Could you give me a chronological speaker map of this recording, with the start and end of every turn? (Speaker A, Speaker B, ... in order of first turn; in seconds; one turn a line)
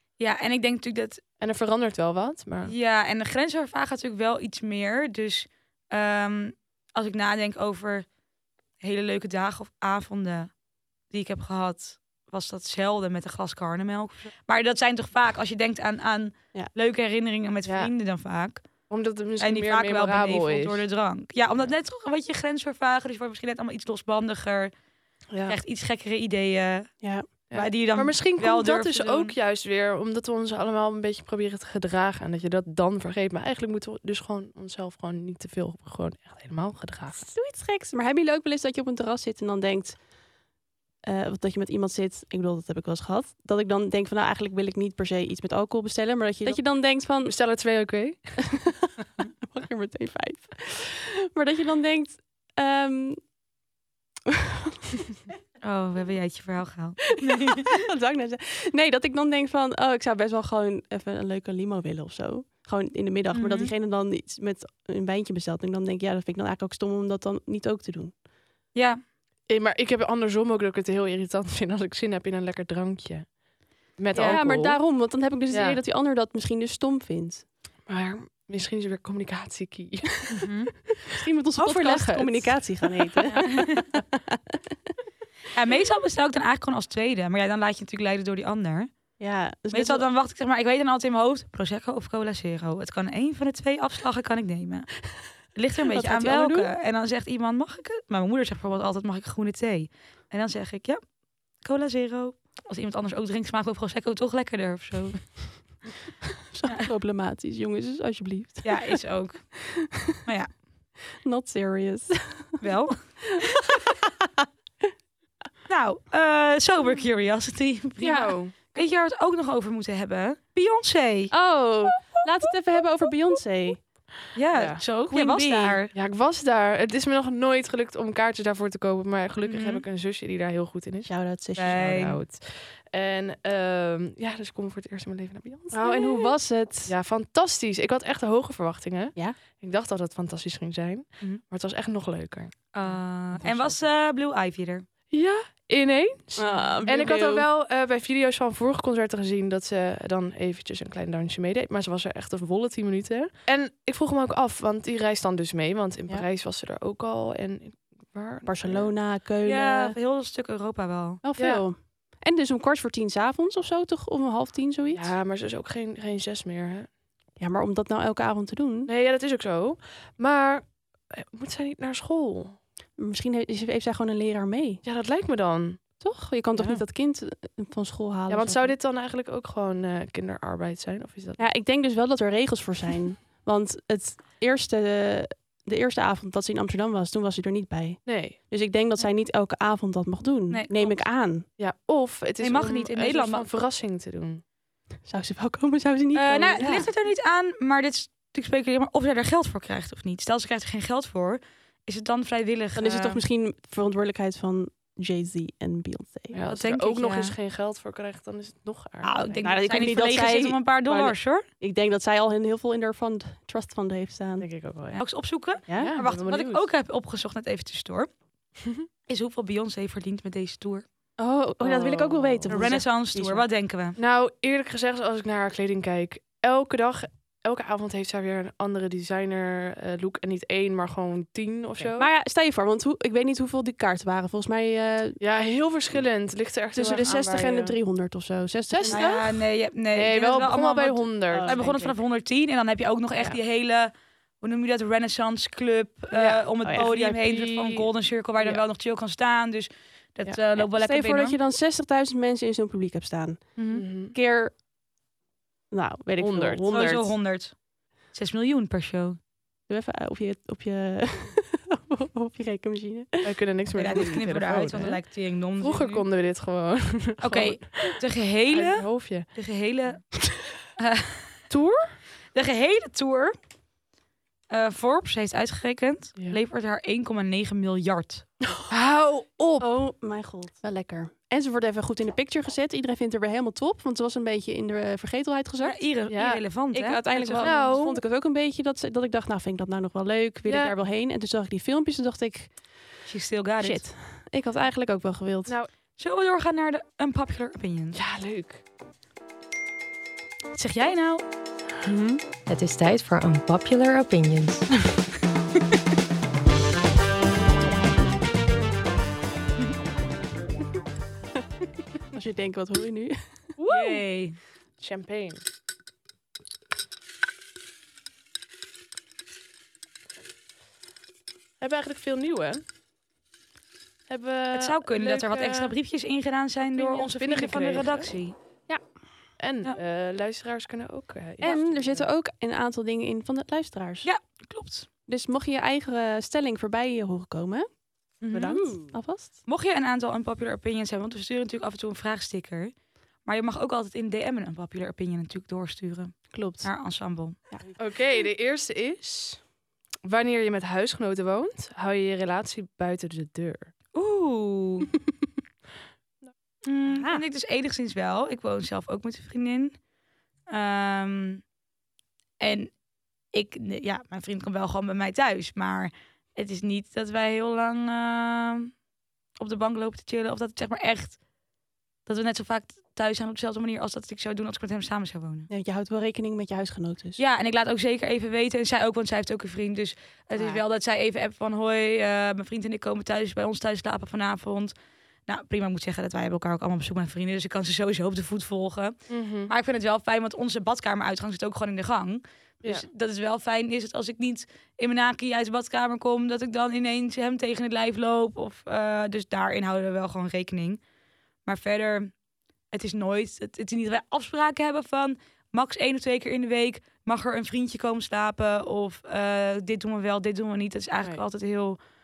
Speaker A: 0.2-1.2
Speaker B: 1.4-2.7
Speaker A: 2.6-8.1
Speaker A: 8.8-10.5
Speaker A: 11.1-18.6
Speaker B: 17.6-17.9
Speaker B: 18.9-20.9
Speaker A: 19.4-24.7
Speaker B: 25.3-25.6
Speaker A: 25.5-27.0
Speaker C: 27.0-27.3
Speaker A: 27.5-29.3
Speaker B: 27.5-37.3
Speaker C: 37.3-40.0
Speaker C: 41.0-47.4
Speaker B: 47.2-48.7
Speaker C: 49.4-53.3
Speaker A: 55.6-57.7
Speaker C: 57.4-68.2
Speaker A: 63.3-63.7
Speaker A: 68.7-69.0
Speaker B: 69.5-73.4
Speaker B: 74.0-74.9
Speaker C: 74.1-77.5
Speaker B: 75.5-75.8
Speaker B: 77.9-80.5
Speaker A: 80.3-80.7
Speaker C: 81.1-84.6
Speaker B: 81.6-83.4
Speaker A: 83.3-83.8
Speaker A: 85.5-88.9
Speaker C: 89.2-90.1
Speaker A: 89.7-101.0
Speaker C: 95.9-96.7
Speaker A: 101.5-105.8
Speaker C: 106.5-109.0
Speaker A: 108.6-110.5
Speaker C: 109.6-110.2
Speaker C: 111.1-112.6
Speaker A: 112.6-113.4
Speaker C: 113.3-113.9
Speaker A: 115.7-121.3
Speaker B: 118.0-118.5
Speaker C: 121.3-123.8
Speaker A: 124.3-125.9
Speaker B: 124.5-124.8
Speaker C: 125.1-125.8
Speaker B: 125.9-136.3
Speaker A: 129.4-129.8
Speaker C: 131.1-131.8
Speaker A: 131.6-132.2
Speaker C: 135.7-136.9
Speaker B: 136.9-142.8
Speaker A: 142.7-144.8
Speaker B: 143.4-143.8
Speaker B: 145.1-158.9
Speaker C: 146.4-147.5
Speaker A: 146.5-146.7
Speaker C: 158.4-160.0
Speaker A: 159.4-161.2
Speaker C: 161.2-165.1
Speaker B: 161.4-161.6
Speaker B: 164.9-166.9
Speaker C: 167.4-168.9
Speaker B: 168.9-172.6
Speaker C: 173.0-174.8
Speaker B: 174.8-176.0
Speaker C: 176.0-178.7
Speaker B: 176.6-176.8
Speaker B: 178.3-181.4
Speaker C: 181.4-191.5
Speaker B: 188.1-188.4
Speaker A: 190.5-191.0
Speaker B: 191.6-194.4
Speaker A: 192.4-193.5
Speaker C: 195.1-196.9
Speaker A: 196.1-203.2
Speaker B: 196.6-196.9
Speaker C: 202.8-206.4
Speaker B: 206.3-209.6
Speaker A: 206.5-207.3
Speaker A: 209.0-211.4
Speaker C: 209.4-214.5
Speaker B: 214.4-215.0
Speaker A: 214.9-218.1
Speaker B: 215.6-216.7
Speaker C: 215.7-215.9
Speaker A: 219.1-220.8
Speaker C: 221.2-223.4
Speaker B: 221.6-222.8
Speaker A: 222.5-224.0
Speaker B: 224.0-232.1
Speaker C: 231.9-235.2
Speaker B: 235.2-237.8
Speaker C: 236.7-239.1
Speaker B: 238.7-239.3
Speaker A: 238.9-251.4
Speaker B: 239.9-241.9
Speaker C: 241.3-241.9
Speaker B: 246.1-247.9
Speaker C: 246.6-246.9
Speaker C: 250.6-254.6
Speaker A: 253.6-253.8
Speaker B: 253.7-254.2
Speaker C: 255.7-257.1
Speaker B: 256.2-256.7
Speaker A: 256.7-259.2
Speaker C: 259.7-263.3
Speaker B: 263.2-265.0
Speaker A: 263.8-266.1
Speaker B: 265.6-268.0
Speaker A: 267.2-270.2
Speaker B: 268.5-269.3
Speaker A: 270.8-271.4
Speaker B: 271.5-272.0
Speaker A: 272.3-273.4
Speaker A: 274.5-278.3
Speaker B: 278.7-279.7
Speaker C: 279.6-285.8
Speaker A: 285.6-287.8
Speaker B: 286.1-286.4
Speaker C: 286.7-292.8
Speaker B: 287.4-288.0
Speaker B: 290.4-290.7
Speaker A: 293.1-293.9
Speaker C: 293.6-295.6
Speaker A: 296.0-298.0
Speaker B: 297.9-298.6
Speaker A: 300.5-301.2
Speaker C: 301.9-302.2
Speaker D: 302.5-304.8
Speaker C: 312.1-313.4
Speaker B: 313.6-314.0
Speaker A: 313.7-314.4
Speaker B: 314.8-315.4
Speaker B: 321.6-322.6
Speaker B: 324.1-325.8
Speaker A: 324.5-328.4
Speaker B: 326.7-328.1
Speaker B: 329.4-332.1
Speaker C: 331.4-334.1
Speaker A: 334.0-334.9
Speaker C: 335.1-339.4
Speaker A: 338.2-338.8
Speaker A: 339.4-342.7
Speaker A: 343.2-347.4
Speaker C: 346.3-346.7
Speaker B: 347.8-349.4
Speaker B: 350.1-353.7
Speaker A: 353.9-354.9
Speaker A: 356.6-359.8
Speaker C: 356.9-357.2
Speaker A: 360.5-361.4
Speaker A: 362.4-362.7
Speaker A: 363.3-368.7
Speaker A: 369.4-371.2
Speaker A: 372.1-375.5
Speaker C: 375.5-377.2
Speaker A: 377.2-384.7
Speaker A: 385.3-389.0
Speaker B: 389.1-389.5
Speaker A: 389.5-400.8
Speaker A: 401.4-402.1
Speaker A: 402.7-411.8